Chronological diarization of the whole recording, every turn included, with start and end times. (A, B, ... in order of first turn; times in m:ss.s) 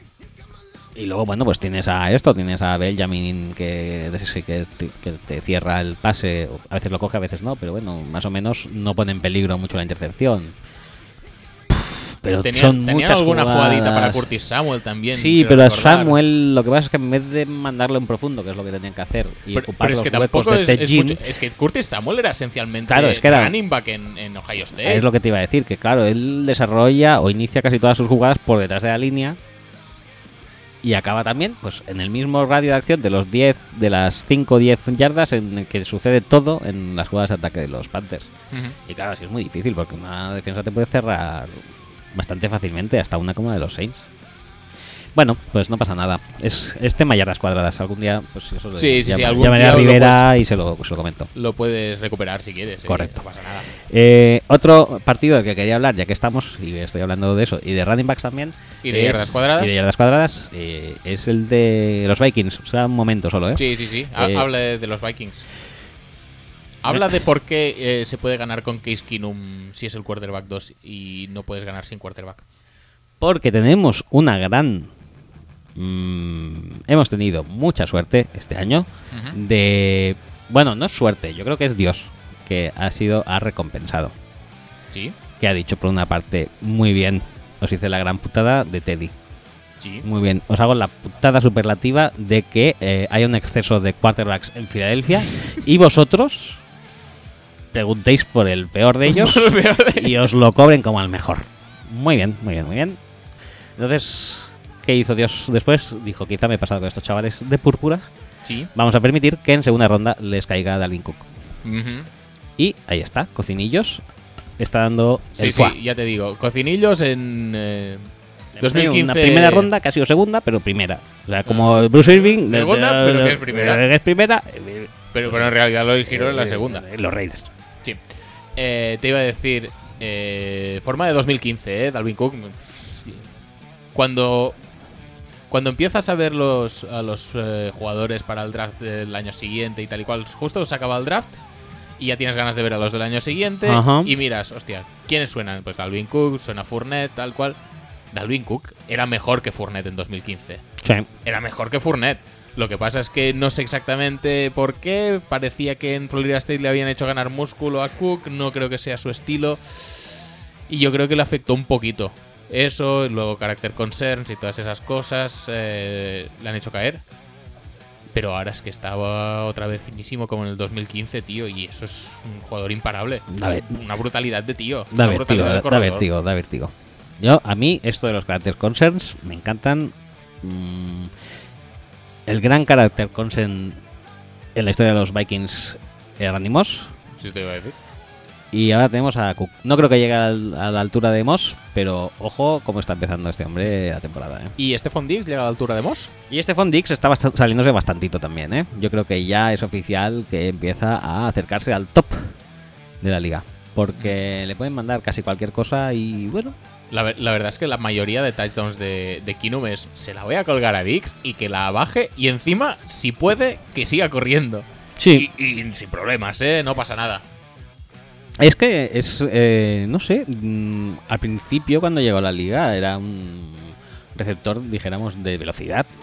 0:00.9-0:10.5 A
0:11.7-0:14.3 A
0:12.4-0:16.2 B
0:15.1-0:21.2 A
0:19.5-0:25.0 B
0:22.9-0:23.6 A
0:24.8-0:29.4 A
0:30.8-0:38.3 A
0:38.9-0:44.1 A
0:45.1-0:51.3 A
0:48.8-0:50.2 B
0:51.3-0:53.7 B
0:52.8-0:53.2 A
0:53.8-1:04.5 A
0:58.8-0:59.8 B
1:03.6-1:05.4 B
1:06.8-1:12.4 B
1:06.9-1:07.2 A
1:13.2-1:14.9 A
1:15.7-1:24.1 A
1:19.1-1:19.4 B
1:25.4-1:29.1 A
1:29.8-1:30.0 B
1:30.0-1:36.6 A
1:37.7-1:43.0 A
1:39.0-1:40.3 B
1:43.8-1:48.0 A
1:48.4-1:48.7 B
1:48.7-1:51.3 A
1:51.6-1:52.1 B
1:52.6-1:54.0 A
1:54.6-1:55.8 A
1:55.4-1:58.1 B
1:58.6-2:05.5 A
1:58.6-1:59.7 B
2:01.4-2:03.8 B
2:05.1-2:06.8 B
2:06.0-2:07.5 A
2:08.6-2:13.2 B
2:13.9-2:14.6 B
2:15.5-2:21.3 B
2:22.0-2:27.6 B
2:23.6-2:24.1 A
2:28.1-2:30.6 B
2:30.8-2:31.1 A
2:31.2-2:40.1 B
2:40.7-2:47.0 B
2:48.1-2:56.0 B
2:53.3-2:53.8 A
2:54.9-3:01.1 A
3:02.2-3:03.8 A
3:04.5-3:06.9 A
3:07.2-3:07.7 B
3:08.5-3:14.5 A
3:14.6-3:16.1 B
3:16.3-3:22.3 A
3:23.0-3:26.6 A
3:26.9-3:37.2 B
3:35.0-3:35.3 A
3:38.4-3:45.9 A